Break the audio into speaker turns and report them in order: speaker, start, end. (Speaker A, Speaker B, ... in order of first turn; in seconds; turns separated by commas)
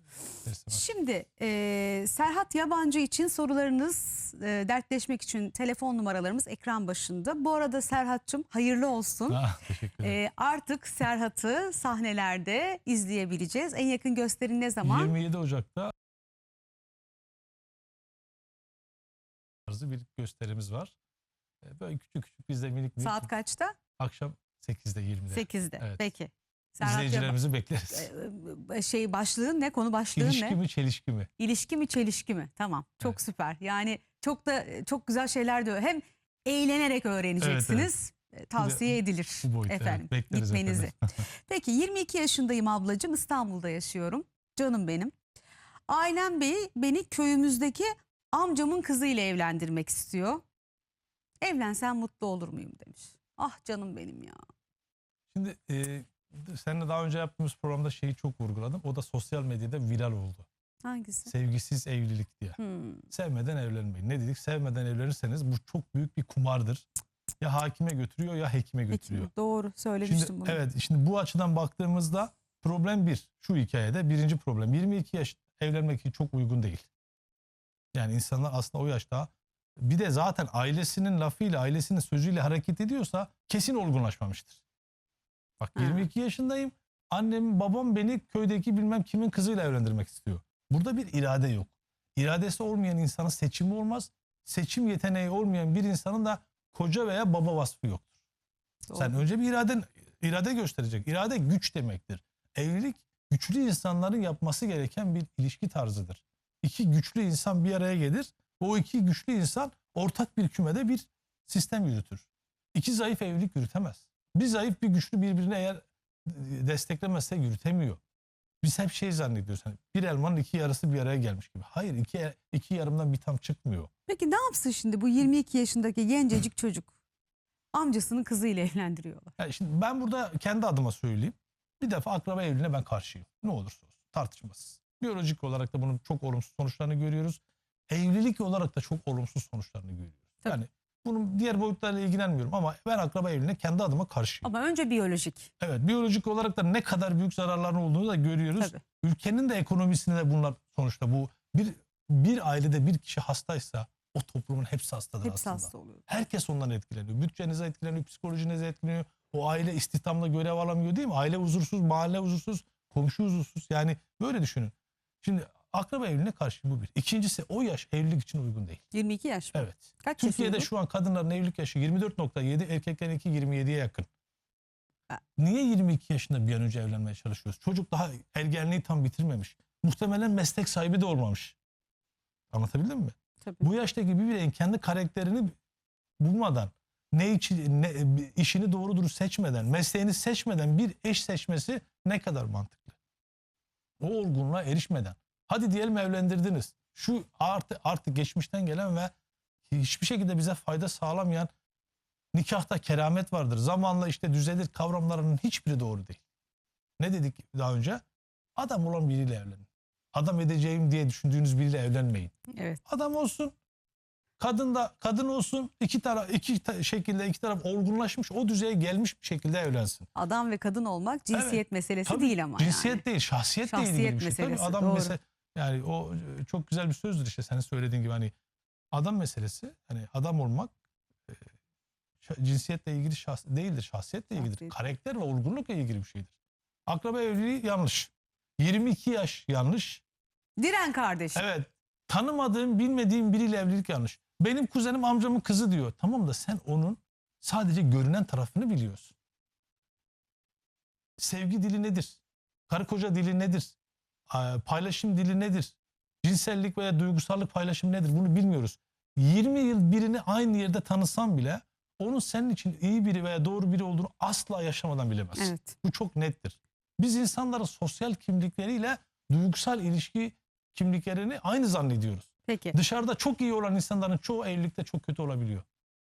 Speaker A: 0.4-0.8, Speaker B: 0.7-9.4, Speaker A: 9.3-10.2, Speaker B: 10.0-15.1, Speaker A: 14.8-15.9, Speaker A: 19.7-20.9, Speaker A: 21.6-23.3, Speaker B: 23.0-23.7, Speaker A: 24.0-26.0, Speaker B: 25.3-27.4, Speaker A: 26.8-28.1, Speaker B: 27.9-30.6, Speaker A: 30.1-31.3, Speaker B: 31.4-45.1, Speaker A: 37.4-37.9, Speaker A: 38.6-41.0, Speaker B: 45.9-50.4, Speaker B: 51.4-54.4, Speaker A: 55.3-60.5, Speaker B: 60.8-61.3, Speaker A: 61.3-62.6, Speaker B: 62.6-63.0, Speaker A: 63.1-66.9, Speaker A: 67.4-69.3, Speaker B: 68.9-70.6, Speaker A: 70.0-76.9, Speaker A: 77.9-84.6, Speaker A: 85.6-98.1, Speaker B: 85.8-86.0, Speaker B: 98.9-99.2, Speaker A: 98.9-118.0, Speaker A: 118.6-123.9, Speaker B: 124.1-126.9, Speaker B: 127.7-129.3, Speaker A: 129.4-144.5, Speaker B: 144.4-145.5, Speaker A: 145.6-168.8, Speaker B: 155.2-156.1, Speaker B: 168.9-170.7, Speaker A: 169.5-174.1, Speaker A: 175.4-181.6, Speaker A: 182.5-185.5, Speaker A: 186.2-193.0, Speaker A: 194.0-199.1, Speaker A: 199.7-201.5, Speaker A: 202.3-206.2, Speaker A: 207.0-208.0, Speaker A: 208.6-212.3, Speaker B: 212.5-212.8, Speaker A: 212.8-213.5, Speaker A: 214.4-220.1, Speaker B: 220.1-223.0, Speaker A: 221.3-228.3, Speaker B: 223.7-225.1, Speaker A: 228.9-230.7, Speaker A: 232.2-236.3, Speaker B: 234.3-234.7, Speaker A: 236.9-240.0, Speaker B: 240.6-241.4, Speaker A: 241.3-249.1, Speaker A: 251.2-252.2, Speaker A: 252.7-253.7, Speaker A: 254.3-275.6, Speaker B: 265.4-265.8, Speaker B: 272.5-272.8